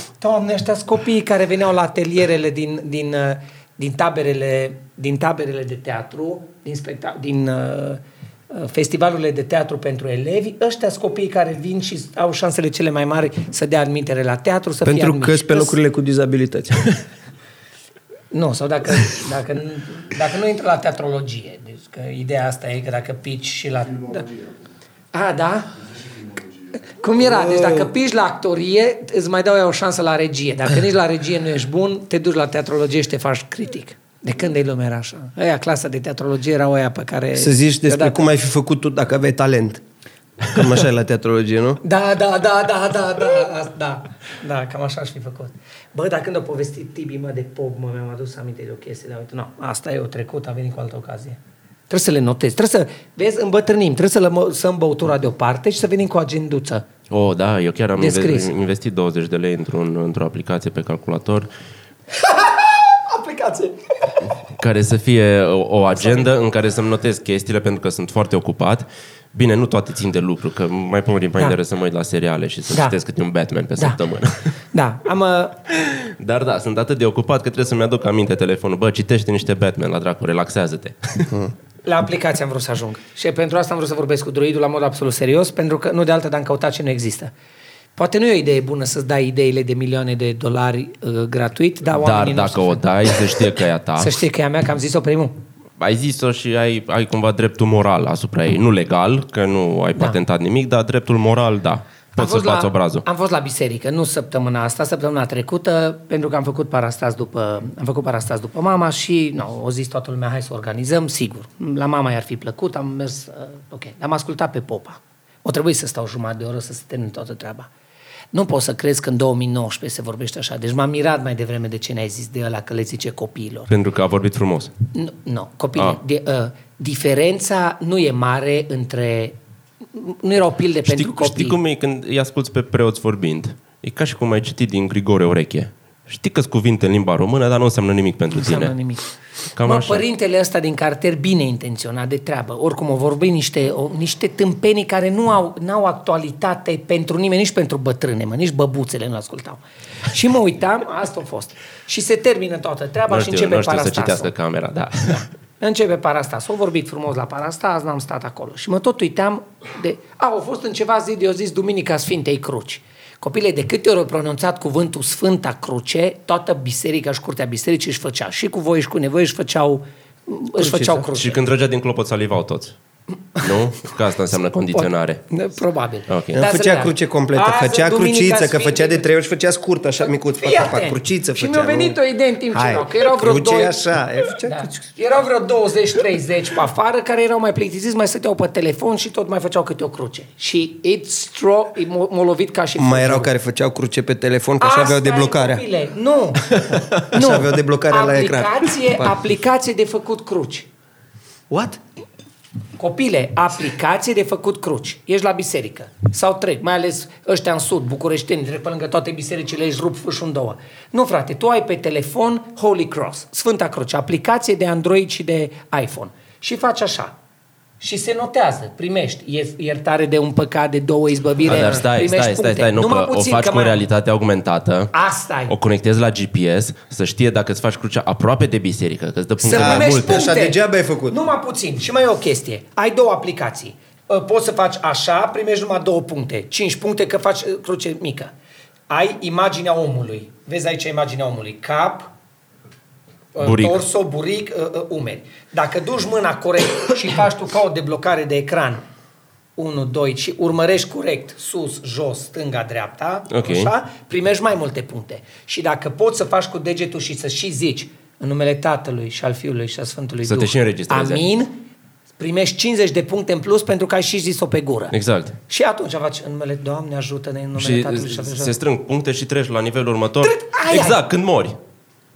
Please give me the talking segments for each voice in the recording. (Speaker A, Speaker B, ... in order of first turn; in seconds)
Speaker A: 0.2-15.8, 18.3-24.3, 25.1-25.7, 26.8-38.2, 41.8-51.4, 51.9-56.9, 58.0-58.5, 62.2-63.9, 66.0-66.3, 74.7-75.6, 81.8-87.3, 88.0-93.4, 94.0-95.3, 102.2-117.7, 118.3-123.7, 124.9-129.4, 129.9-131.6, 138.3-139.1, 139.6-154.3, 155.1-171.4, 174.7-179.1, 180.4-183.8, 184.4-193.3, 194.6-200.7, 202.8-217.1, 217.8-223.8, 224.9-225.5, 229.4-238.3, 238.9-242.1, 243.3-248.8, 249.6-261.5, 262.2-264.9, 265.5-268.6, 270.2-271.0
Speaker B: 14.8-17.0, 27.2-27.9, 37.4-39.8, 40.5-41.8, 176.3-182.0, 182.5-184.8, 192.8-195.7, 196.7-199.2, 201.5-201.8, 229.5-231.2
Speaker C: 57.1-61.5, 64.6-74.5, 76.0-81.3, 91.9-94.2, 95.8-103.0, 123.7-124.7, 130.8-138.7, 139.6-140.1, 153.1-155.2, 170.6-172.8, 173.4-175.2, 176.1-176.4, 221.4-224.9, 225.5-230.3, 243.4-243.8, 253.3-253.7, 260.3-261.2, 264.9-265.4, 267.6-271.6